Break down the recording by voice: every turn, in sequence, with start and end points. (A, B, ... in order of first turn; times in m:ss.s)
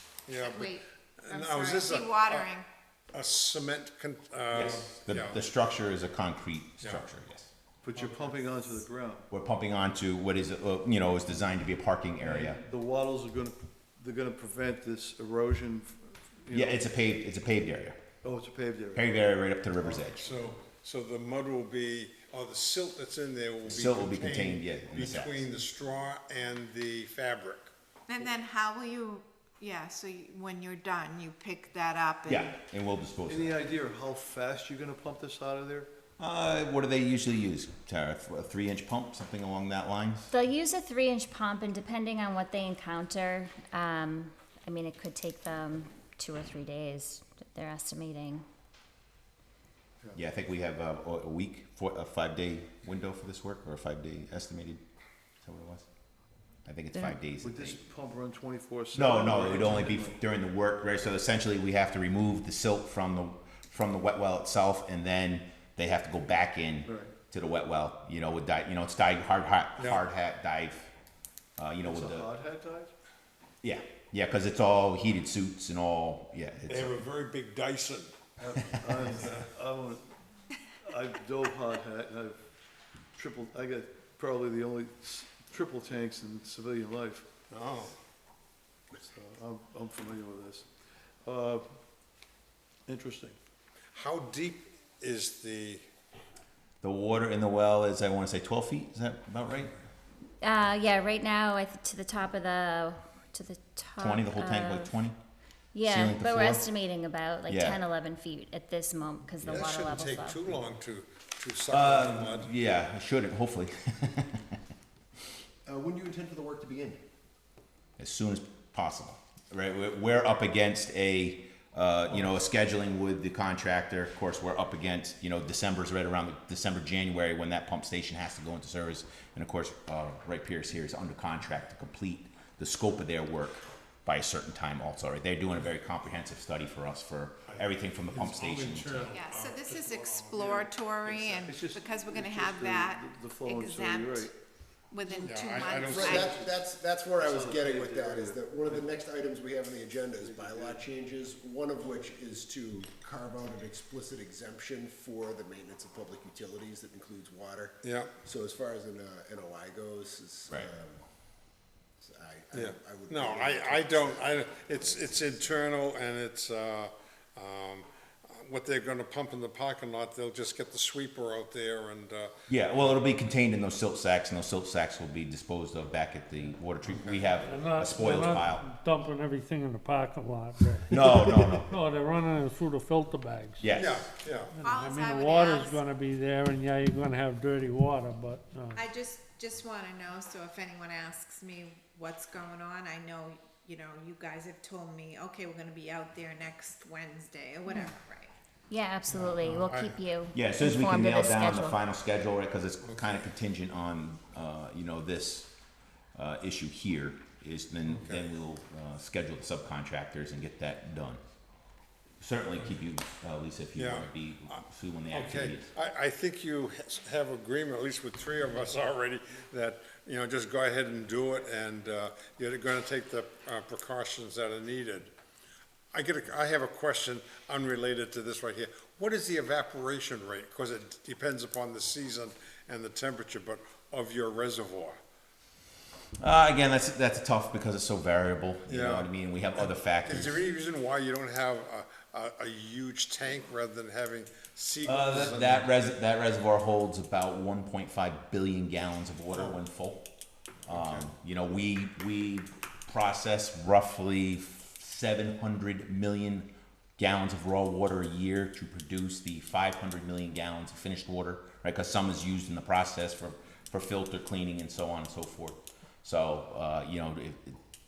0:00.3-0:02.5 A
0:00.4-0:02.7 B
0:03.1-0:05.4 A
0:04.5-0:07.5 C
0:07.8-0:09.3 D
0:09.3-0:12.6 C
0:12.2-0:16.8 D
0:16.5-0:18.0 C
0:18.2-0:19.1 D
0:19.0-0:20.3 C
0:20.0-0:27.7 A
0:23.6-0:25.5 C
0:28.1-0:32.5 B
0:32.3-0:33.6 C
0:33.3-0:35.9 D
0:36.2-0:40.3 C
0:40.3-0:48.5 E
0:50.1-0:54.8 C
0:55.4-0:55.9 C
0:56.6-0:57.8 C
0:56.9-0:57.2 E
0:57.4-1:00.2 D
0:58.9-1:10.9 C
1:06.8-1:07.1 D
1:09.8-1:10.0 A
1:11.6-1:12.3 C
1:11.8-1:12.9 D
1:13.6-1:17.0 C
1:16.7-1:18.2 A
1:18.4-1:20.1 D
1:19.2-1:19.4 A
1:20.8-1:22.4 D
1:23.2-1:27.3 D
1:27.5-1:27.9 A
1:29.0-1:30.7 D
1:31.2-1:31.6 D
1:32.9-1:33.4 D
1:33.9-1:35.8 A
1:36.8-1:39.7 C
1:40.4-1:44.9 E
1:44.0-1:45.2 C
1:45.7-1:50.4 E
1:45.8-1:46.7 C
1:47.5-1:47.8 C
1:49.4-1:52.5 A
1:51.7-1:54.6 C
1:55.6-1:57.0 F
1:58.0-2:19.1 C
2:17.5-2:21.4 A
2:19.2-2:24.3 B
2:21.4-2:24.3 D
2:24.9-2:26.3 B
2:25.1-2:41.0 F
2:25.2-2:26.2 A
2:25.9-2:26.6 D
2:27.2-2:28.9 D
2:30.2-2:30.9 D
2:37.8-2:38.1 A
2:42.0-2:45.6 F
2:42.5-2:52.3 A
2:52.5-2:58.6 C
2:57.0-2:57.4 A
2:57.4-3:03.7 G
3:00.9-3:01.7 C
3:03.6-3:04.1 C
3:03.7-3:04.5 A
3:04.5-3:08.9 G
3:04.6-3:05.8 B
3:08.8-3:18.3 B
3:18.7-3:21.8 E
3:19.1-3:20.0 A
3:20.3-3:25.5 C
3:22.8-3:23.1 A
3:26.2-3:31.2 C
3:27.9-3:28.3 A
3:32.2-3:35.7 C
3:33.8-3:45.1 A
3:45.9-3:55.0 A
3:56.2-4:00.3 C
3:58.7-4:05.7 A
4:04.8-4:10.1 C
4:09.3-4:09.6 A
4:10.7-4:11.1 A
4:10.7-4:27.6 C